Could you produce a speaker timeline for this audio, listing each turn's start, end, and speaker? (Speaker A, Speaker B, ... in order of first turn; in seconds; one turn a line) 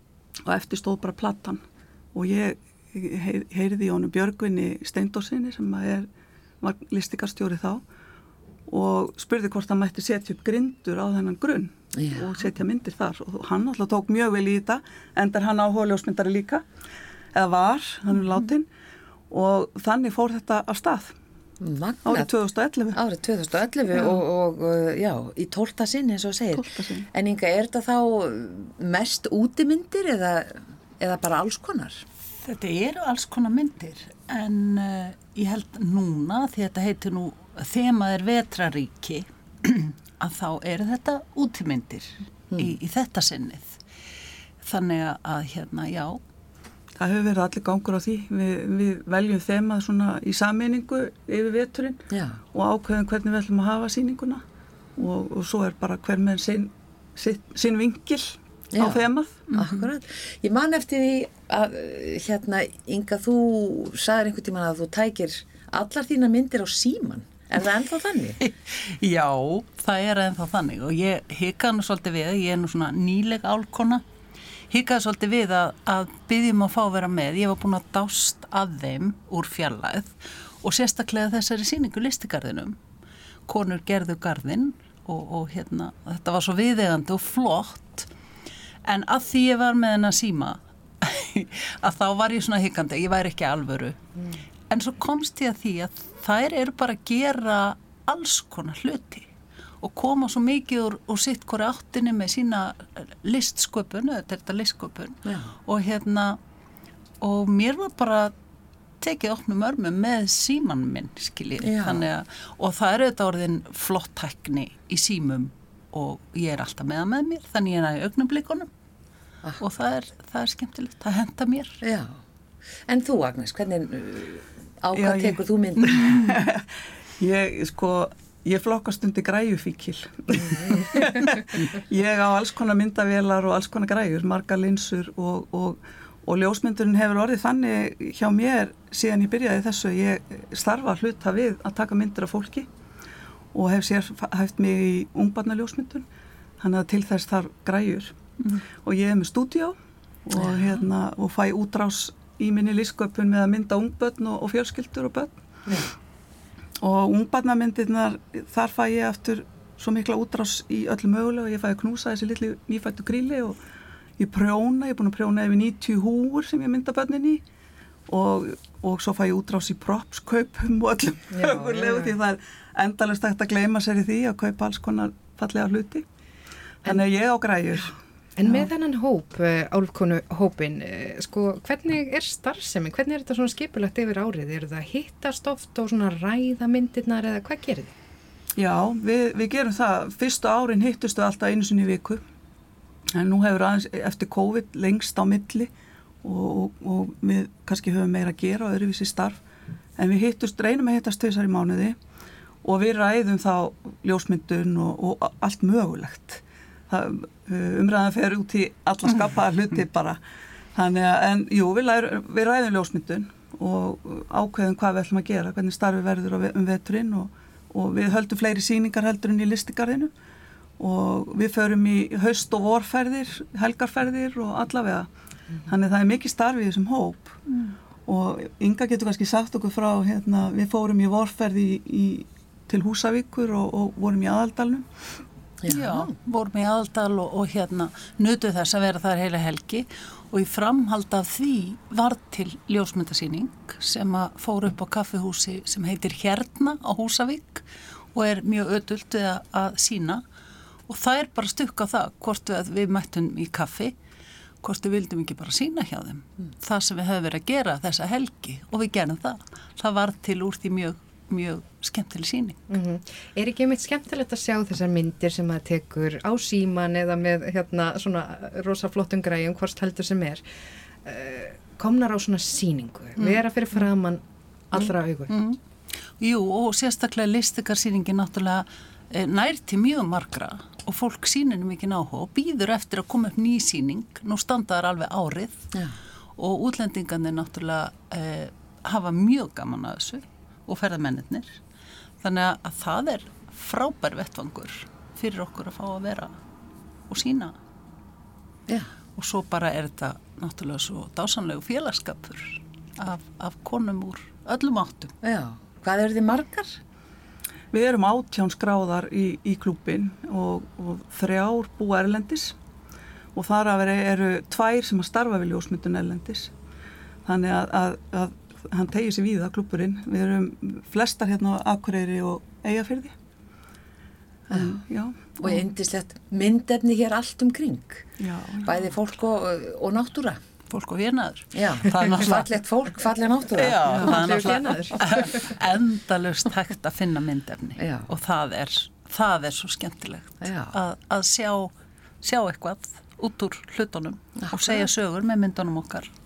Speaker A: 0.5-6.1
Speaker A: 6.6-7.8
Speaker A: 8.7-16.6
Speaker B: 11.9-12.4
Speaker A: 17.3-18.7
Speaker C: 18.2-18.5
Speaker A: 19.3-21.1
Speaker B: 21.6-22.3
Speaker A: 22.1-23.0
Speaker B: 22.9-32.0
Speaker A: 23.9-24.2
Speaker A: 26.6-27.1
Speaker C: 32.4-43.8
Speaker C: 44.6-46.2
Speaker A: 47.0-52.0
Speaker B: 52.1-52.4
Speaker A: 52.5-54.4
Speaker A: 55.0-59.5
Speaker B: 58.7-68.4
Speaker C: 59.5-59.9
Speaker C: 68.4-74.0
Speaker C: 74.7-82.8
Speaker C: 83.5-88.1
Speaker C: 88.8-94.0
Speaker C: 94.7-106.4
Speaker B: 105.2-105.5
Speaker C: 107.2-108.3
Speaker C: 109.0-118.7
Speaker B: 111.6-112.1
Speaker C: 119.6-121.8
Speaker B: 121.8-122.2
Speaker B: 122.9-126.3
Speaker A: 124.9-142.7
Speaker A: 143.5-146.1
Speaker A: 146.6-148.2
Speaker A: 148.7-155.4
Speaker C: 150.4-150.8
Speaker A: 156.8-163.6
Speaker A: 164.2-167.4
Speaker A: 168.1-176.1
Speaker D: 171.3-172.2
Speaker A: 176.8-178.7
Speaker D: 178.4-187.9
Speaker A: 188.6-192.2
Speaker A: 193.1-195.7
Speaker A: 196.2-199.4
Speaker A: 200.0-202.0
Speaker A: 202.6-210.2
Speaker A: 210.8-220.1
Speaker A: 220.8-225.1
Speaker A: 225.7-227.4
Speaker A: 228.1-234.9
Speaker B: 235.6-236.2
Speaker C: 235.7-250.2
Speaker C: 250.9-254.0
Speaker C: 254.6-262.6
Speaker D: 262.7-270.4
Speaker D: 271.0-275.4
Speaker C: 273.2-273.9
Speaker C: 274.8-275.6
Speaker C: 276.2-285.6
Speaker C: 286.4-291.6
Speaker C: 292.2-296.4
Speaker C: 297.1-297.6
Speaker C: 299.2-305.1
Speaker B: 305.2-306.8
Speaker A: 307.7-312.6
Speaker A: 313.3-316.5
Speaker A: 317.2-323.1
Speaker A: 324.5-325.6
Speaker B: 324.5-324.8
Speaker B: 325.4-328.1
Speaker A: 328.2-328.9
Speaker B: 328.6-330.4
Speaker C: 330.7-332.6
Speaker B: 331.5-334.5
Speaker C: 333.5-346.1
Speaker D: 334.0-335.4
Speaker B: 337.8-338.1
Speaker B: 340.4-340.8
Speaker B: 344.4-344.9